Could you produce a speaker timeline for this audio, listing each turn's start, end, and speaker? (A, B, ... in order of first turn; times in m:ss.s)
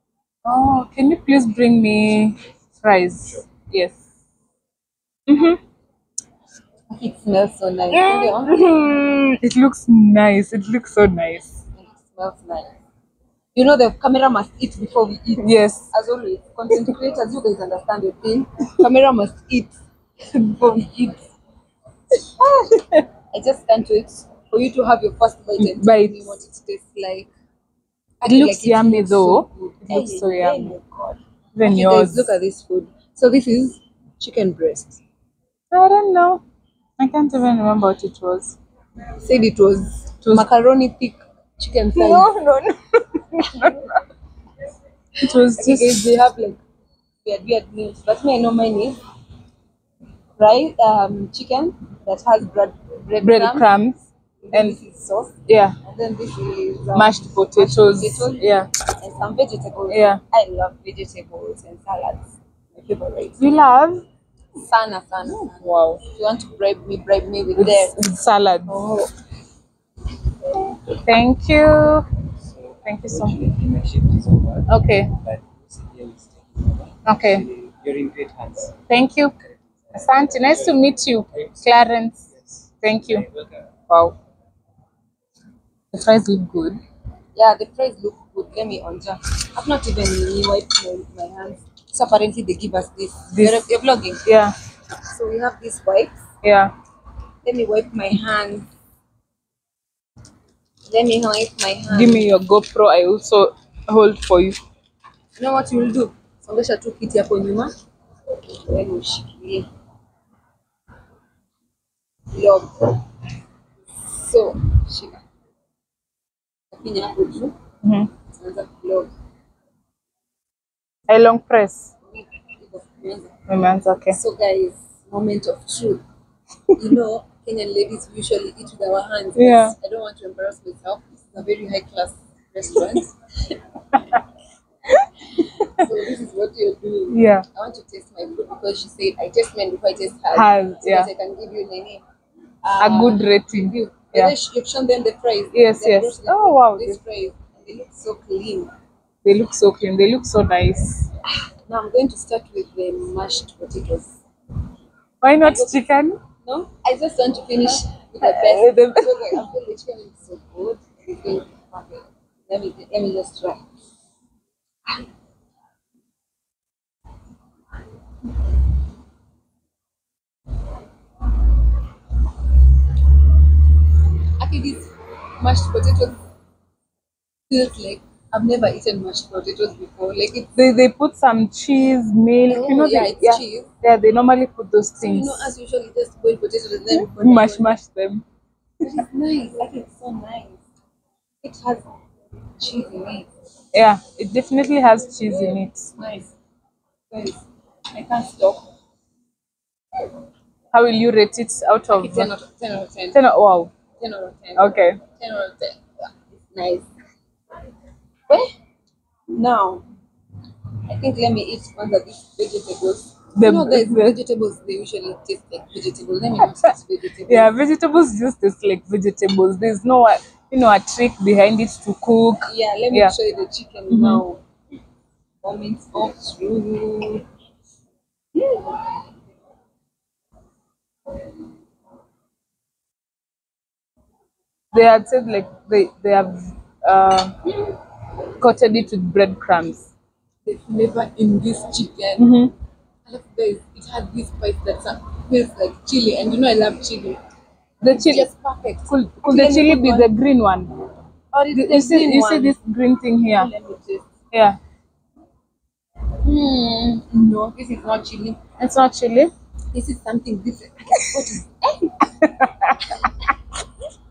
0:00.4-0:04.0 A
0:05.3-0:05.6 A
0:06.9-0:08.6 B
0:07.9-0:11.5 A
0:11.8-0:12.7 B
0:13.5-0:21.2 B
0:15.4-0:15.8 A
0:23.3-0:27.3 B
0:25.6-0:26.2 A
0:28.2-0:35.0 B
0:28.2-0:30.7 A
0:31.6-0:32.3 A
0:35.7-0:36.4 A
0:37.0-0:38.6 A
0:39.2-0:42.3 B
0:41.9-0:44.0 A
0:45.2-0:46.2 A
0:45.5-0:46.6 B
0:47.2-0:49.0 B
0:50.4-0:53.7 B
0:53.2-0:54.8 A
0:54.4-0:58.4 B
0:55.5-0:55.8 A
0:56.9-0:58.7 A
0:59.0-1:03.5 B
0:59.9-1:00.2 A
1:03.4-1:04.0 A
1:04.6-1:07.9 B
1:05.5-1:06.0 A
1:07.6-1:08.8 A
1:08.7-1:09.1 B
1:10.9-1:12.1 A
1:12.4-1:18.8 C
1:12.8-1:13.4 A
1:14.7-1:15.2 A
1:17.0-1:17.4 A
1:18.9-1:19.3 A
1:19.8-1:20.6 C
1:19.9-1:22.2 A
1:22.8-1:23.2 A
1:23.2-1:23.4 C
1:23.9-1:24.2 A
1:25.9-1:26.8 A
1:27.4-1:34.2 B
1:33.3-1:33.6 A
1:34.2-1:34.5 A
1:35.0-1:36.2 B
1:36.4-1:36.7 A
1:37.4-1:38.7 B
1:40.9-1:42.3 B
1:41.9-1:44.6 A
1:45.4-1:47.7 B
1:48.7-1:49.7 B
1:52.3-1:53.0 B
1:54.0-1:55.2 B
1:56.7-1:57.5 B
1:57.8-1:58.1 A
1:58.3-1:59.1 B
2:01.1-2:01.9 A
2:02.1-2:03.4 B
2:03.5-2:04.2 A
2:04.1-2:06.0 B
2:06.7-2:13.2 B
2:09.4-2:09.7 A
2:15.5-2:22.0 B
2:17.1-2:17.4 A
2:20.3-2:21.1 A
2:22.6-2:28.7 B
2:22.8-2:24.3 A
2:25.5-2:27.0 A
2:29.2-2:31.1 A
2:31.7-2:34.2 B
2:35.2-2:36.2 A
2:35.4-2:35.8 B
2:36.4-2:43.6 B
2:38.2-2:39.1 A
2:54.4-2:56.2 B
2:57.5-3:00.5 B
3:00.6-3:05.5 A
3:02.5-3:03.7 B
3:05.0-3:07.7 B
3:06.9-3:08.2 A
3:08.8-3:10.6 B
3:11.4-3:11.8 B
3:12.6-3:13.3 B
3:13.7-3:15.9 A
3:15.4-3:16.3 B
3:17.1-3:17.4 B
3:17.9-3:18.6 B
3:20.7-3:22.3 A
3:21.9-3:23.2 B
3:23.1-3:23.7 A
3:24.0-3:26.9 B
3:24.6-3:25.0 A
3:29.3-3:29.8 B
3:30.9-3:37.5 B
3:33.4-3:34.2 A
3:37.3-3:43.1 A
3:42.4-3:44.4 B
3:43.9-3:44.2 A
3:45.4-3:47.2 B
3:48.4-3:48.6 B
3:54.7-3:57.4 A
3:58.4-3:59.9 A
4:00.4-4:02.4 B
4:02.2-4:02.5 A
4:03.0-4:07.2 B
4:07.8-4:08.2 A
4:07.9-4:10.1 B
4:08.9-4:10.7 A
4:11.3-4:12.6 B
4:11.5-4:13.5 A
4:13.3-4:14.0 B
4:14.3-4:14.6 A
4:16.2-4:18.4 B
4:18.6-4:19.3 A
4:19.7-4:22.1 B
4:22.3-4:22.8 A